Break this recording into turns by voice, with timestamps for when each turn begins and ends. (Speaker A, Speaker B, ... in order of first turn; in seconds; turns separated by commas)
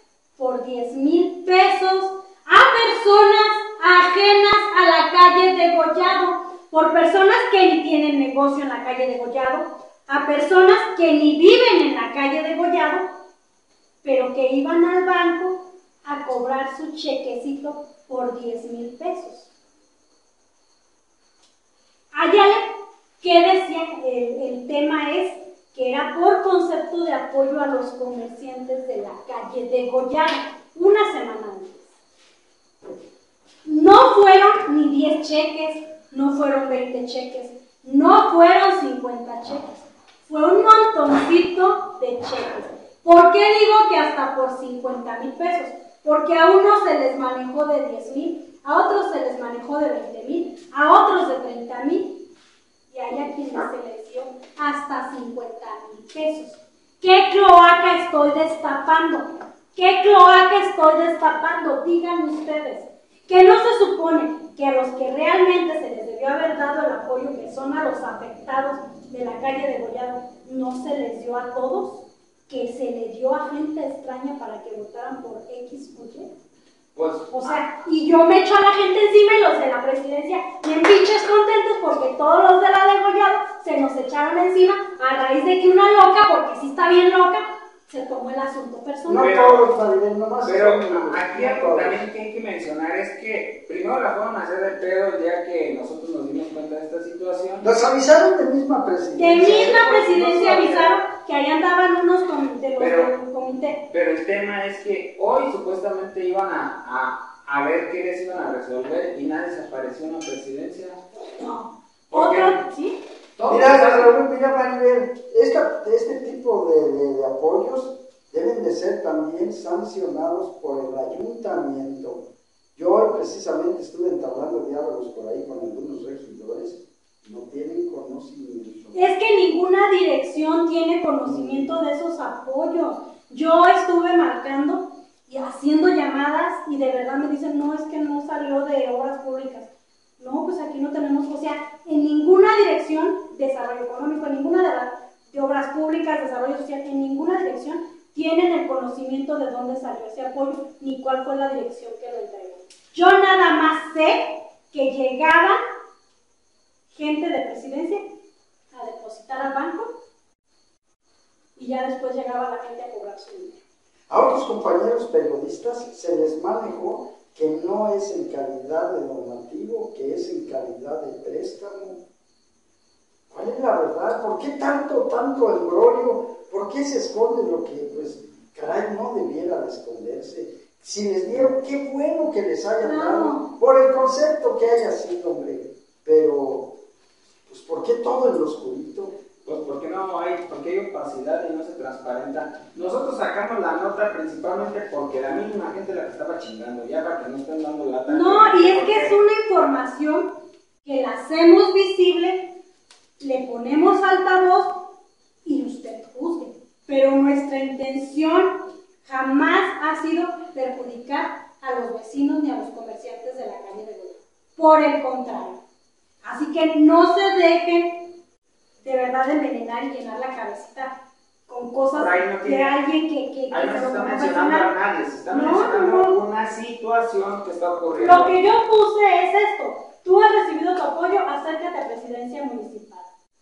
Speaker A: 0.4-13.1, Speaker A: 14.0-19.5, Speaker A: 22.1-22.7, Speaker A: 23.2-31.9, Speaker A: 33.6-52.2, Speaker A: 52.9-76.3, Speaker B: 77.0-77.6, Speaker A: 77.3-89.5, Speaker C: 89.0-92.0, Speaker B: 89.1-89.7, Speaker B: 90.5-97.7, Speaker C: 97.6-101.0, Speaker A: 99.2-103.8, Speaker B: 99.5-100.6, Speaker B: 102.8-103.1, Speaker B: 103.9-111.0, Speaker A: 111.2-113.0, Speaker B: 112.1-112.6, Speaker B: 113.4-114.1, Speaker C: 113.5-122.2, Speaker C: 122.8-129.0, Speaker A: 128.9-155.6, Speaker C: 131.2-131.8, Speaker A: 156.9-158.0, Speaker A: 158.7-159.9, Speaker A: 161.6-163.6, Speaker C: 164.1-172.0, Speaker C: 173.3-186.7, Speaker A: 182.8-183.5, Speaker C: 187.5-189.1, Speaker B: 189.4-199.1, Speaker A: 198.1-200.3, Speaker A: 200.8-202.5, Speaker A: 203.2-204.8, Speaker A: 205.4-215.6, Speaker A: 216.2-218.1, Speaker A: 218.8-220.9, Speaker A: 221.5-224.7, Speaker B: 221.9-222.8, Speaker B: 223.5-228.3, Speaker A: 225.3-226.1, Speaker A: 227.9-233.1